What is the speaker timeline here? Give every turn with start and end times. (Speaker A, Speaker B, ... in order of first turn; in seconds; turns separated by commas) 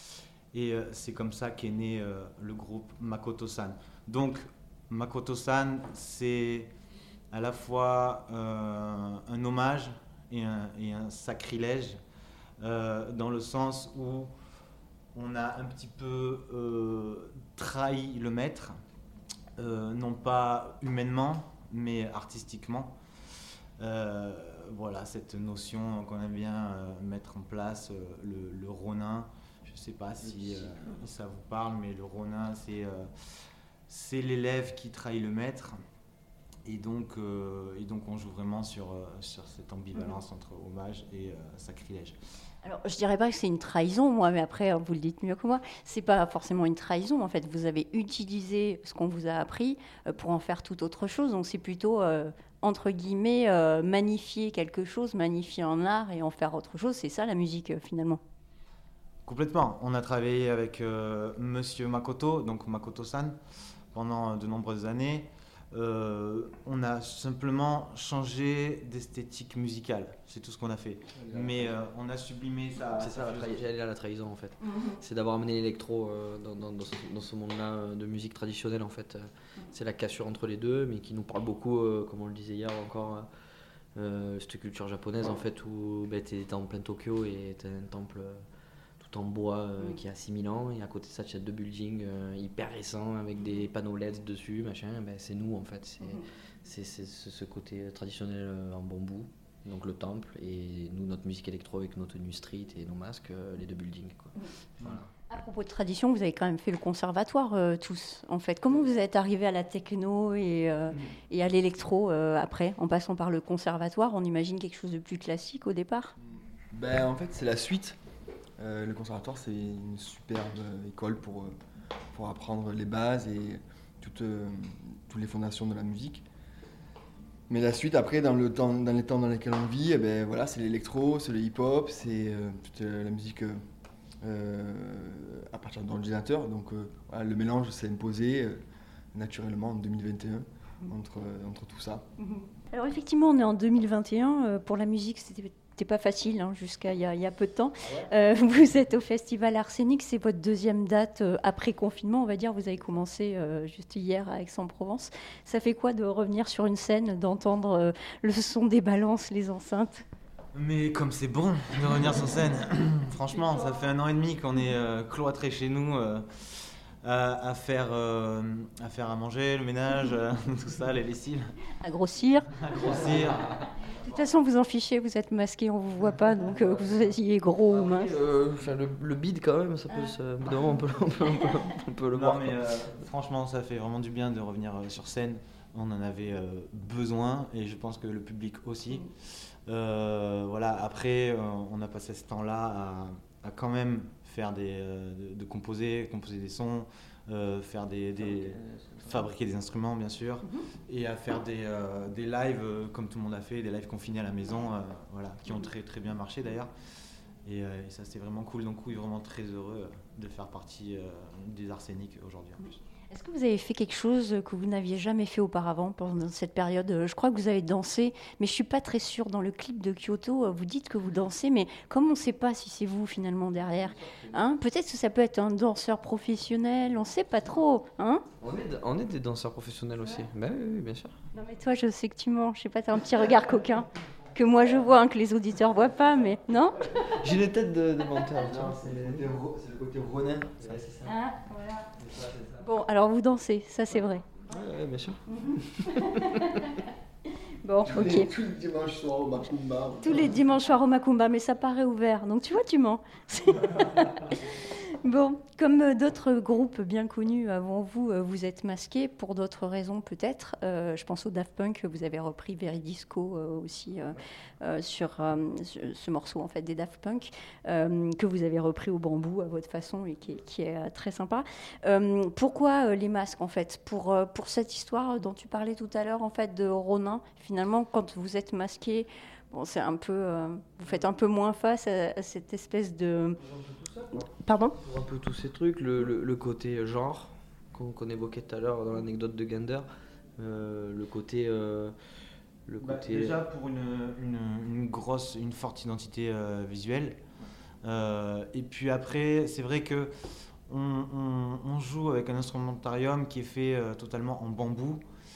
Speaker A: 0.5-6.7, Speaker A: 7.3-12.0, Speaker A: 12.6-14.3, Speaker A: 15.1-18.8, Speaker A: 19.6-23.0, Speaker A: 23.8-33.1, Speaker B: 30.2-30.7, Speaker A: 33.9-35.8, Speaker A: 36.6-42.1, Speaker C: 42.6-58.2, Speaker A: 59.2-63.4, Speaker A: 63.9-73.7, Speaker B: 71.2-71.7, Speaker D: 73.0-83.3, Speaker D: 83.9-88.4, Speaker D: 89.0-105.0, Speaker C: 105.3-116.1, Speaker B: 116.2-118.0, Speaker B: 118.6-121.5, Speaker B: 122.1-126.2, Speaker B: 127.5-133.6, Speaker B: 134.2-138.6, Speaker B: 139.1-142.1, Speaker C: 142.2-160.0, Speaker A: 160.5-171.5, Speaker C: 171.8-172.5, Speaker A: 172.6-173.6, Speaker C: 174.0-178.1, Speaker D: 177.7-182.8, Speaker A: 182.1-206.7, Speaker D: 198.2-199.2, Speaker A: 207.4-212.8, Speaker C: 213.1-228.2, Speaker D: 228.4-231.2, Speaker C: 231.3-237.0, Speaker D: 236.9-239.3, Speaker B: 238.3-241.1, Speaker D: 240.6-241.0, Speaker C: 241.1-241.8, Speaker D: 242.0-242.5, Speaker C: 242.6-244.2, Speaker D: 244.5-246.7, Speaker C: 245.4-246.7, Speaker C: 247.6-248.3, Speaker B: 247.8-250.3, Speaker C: 250.0-283.4, Speaker D: 283.4-289.9, Speaker C: 284.3-284.8, Speaker D: 290.4-291.9, Speaker D: 292.7-293.4, Speaker A: 292.8-297.2, Speaker A: 297.8-300.1, Speaker A: 300.7-305.0